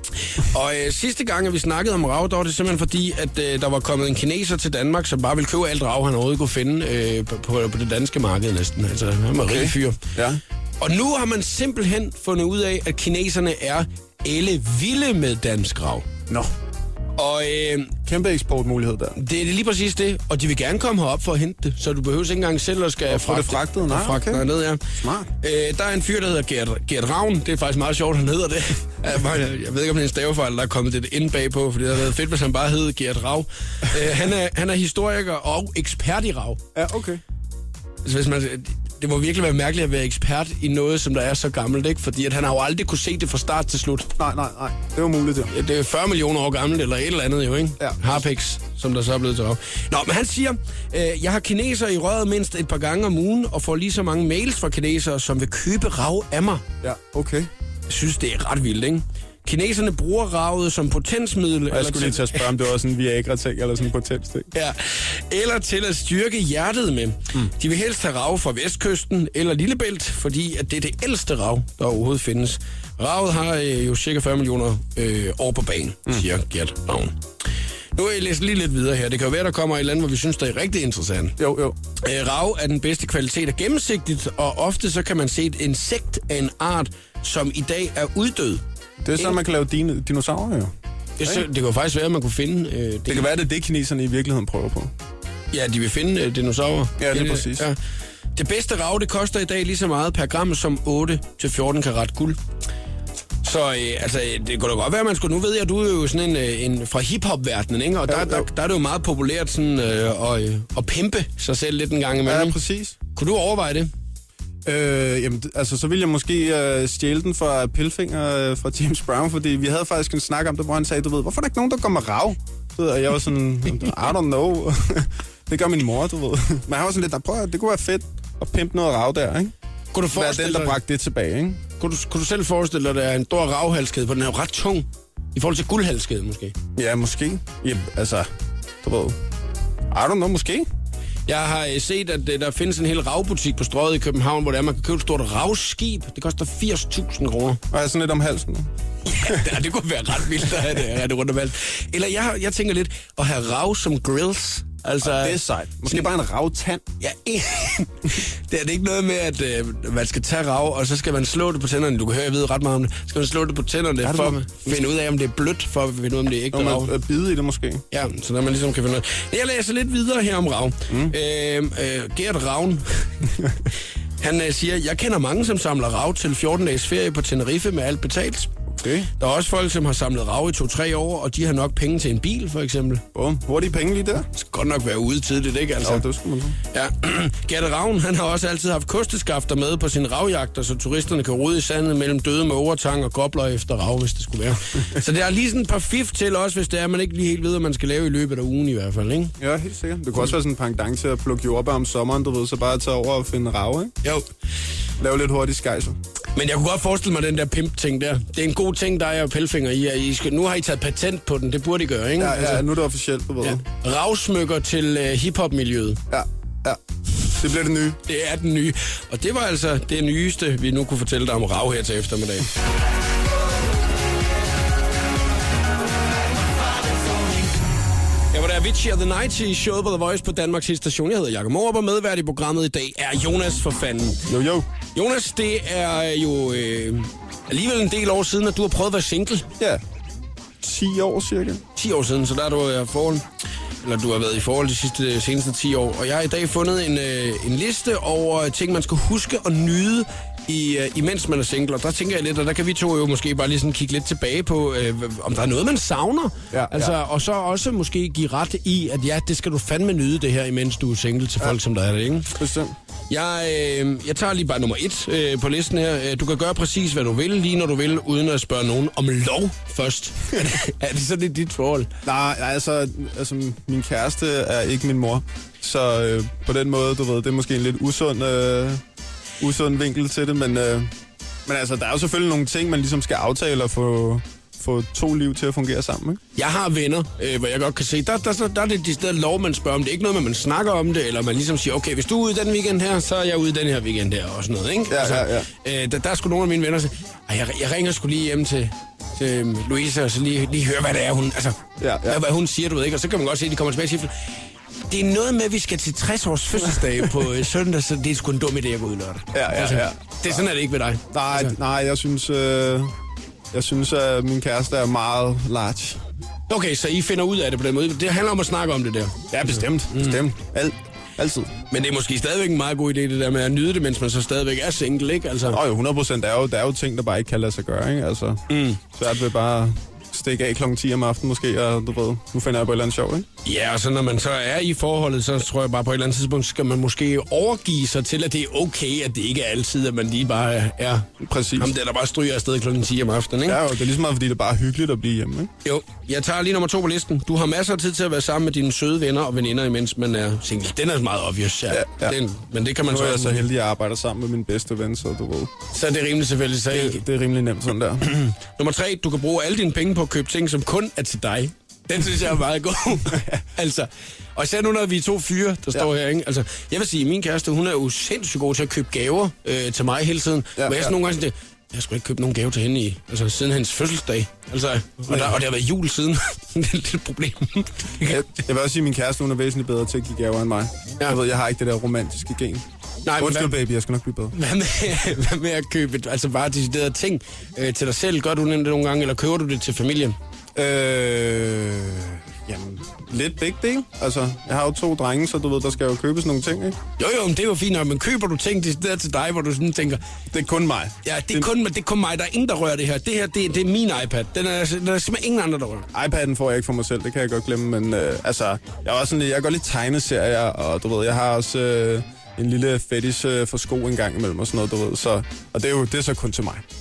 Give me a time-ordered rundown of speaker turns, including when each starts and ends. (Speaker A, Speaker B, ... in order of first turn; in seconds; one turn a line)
Speaker A: 0.3-10.0
Speaker B: 9.5-10.4
Speaker A: 10.8-16.1
Speaker A: 17.2-17.9
Speaker B: 18.0-19.2
Speaker A: 19.1-24.8
Speaker B: 23.1-25.3
Speaker A: 25.4-36.6
Speaker B: 36.7-37.2
Speaker A: 38.0-44.1
Speaker B: 44.2-45.5
Speaker A: 45.5-56.6
Speaker B: 47.8-48.2
Speaker B: 56.8-57.5
Speaker A: 57.9-62.5
Speaker B: 61.7-64.5
Speaker A: 64.5-77.2
Speaker A: 77.9-81.4
Speaker B: 81.4-81.8
Speaker A: 82.0-88.6
Speaker B: 89.0-91.5
Speaker A: 91.2-93.3
Speaker B: 93.1-94.9
Speaker A: 95.5-97.8
Speaker B: 97.0-97.7
Speaker A: 98.3-102.4
Speaker A: 103.4-112.6
Speaker B: 108.1-108.5
Speaker B: 112.2-113.0
Speaker A: 113.1-113.9
Speaker B: 114.6-129.5
Speaker A: 129.9-130.8
Speaker B: 130.1-131.6
Speaker A: 131.8-136.5
Speaker B: 136.8-138.3
Speaker B: 138.8-139.2
Speaker B: 139.9-140.7
Speaker A: 141.3-147.6
Speaker B: 147.7-148.7
Speaker A: 149.1-156.1
Speaker B: 155.0-156.8
Speaker A: 157.0-166.9
Speaker B: 164.0-164.9
Speaker B: 166.5-167.8
Speaker A: 167.9-173.3
Speaker A: 174.2-178.5
Speaker B: 178.8-179.1
Speaker A: 179.2-183.0
Speaker B: 183.1-184.2
Speaker A: 184.3-186.1
Speaker B: 185.8-186.6
Speaker A: 186.7-199.3
Speaker B: 199.4-203.9
Speaker B: 205.0-206.0
Speaker A: 206.3-212.6
Speaker B: 212.2-213.6
Speaker A: 213.4-216.0
Speaker B: 216.1-216.8
Speaker B: 217.3-218.0
Speaker A: 218.1-222.5
Speaker A: 228.3-234.2
Speaker B: 234.3-234.7
Speaker A: 234.9-239.5
Speaker B: 240.6-241.6
Speaker A: 241.8-243.2
Speaker A: 243.8-262.3
Speaker B: 256.5-256.9
Speaker B: 262.3-262.7
Speaker A: 263.1-271.9
Speaker B: 272.0-278.8
Speaker B: 279.4-280.9
Speaker B: 281.4-286.2
Speaker A: 286.4-304.1
Speaker B: 294.9-295.5
Speaker B: 301.8-302.2
Speaker A: 304.9-311.5
Speaker B: 309.3-310.5
Speaker B: 311.1-312.9
Speaker B: 313.5-316.0
Speaker A: 316.5-320.2
Speaker B: 319.3-321.5
Speaker A: 321.7-325.6
Speaker B: 325.5-333.3
Speaker A: 328.5-328.8
Speaker A: 333.4-343.6
Speaker B: 341.2-341.7
Speaker B: 343.4-345.5
Speaker A: 345.6-353.5
Speaker B: 351.7-352.2
Speaker B: 352.9-355.5
Speaker A: 355.7-357.0
Speaker B: 356.7-358.1
Speaker A: 358.0-378.3
Speaker B: 363.1-363.4
Speaker B: 370.6-370.9
Speaker B: 375.1-375.4
Speaker B: 378.0-382.6
Speaker A: 383.1-383.5
Speaker B: 383.2-384.3
Speaker A: 384.3-390.1
Speaker B: 390.6-396.8
Speaker A: 397.0-400.0
Speaker B: 400.3-401.5
Speaker A: 401.0-405.9
Speaker B: 405.9-416.6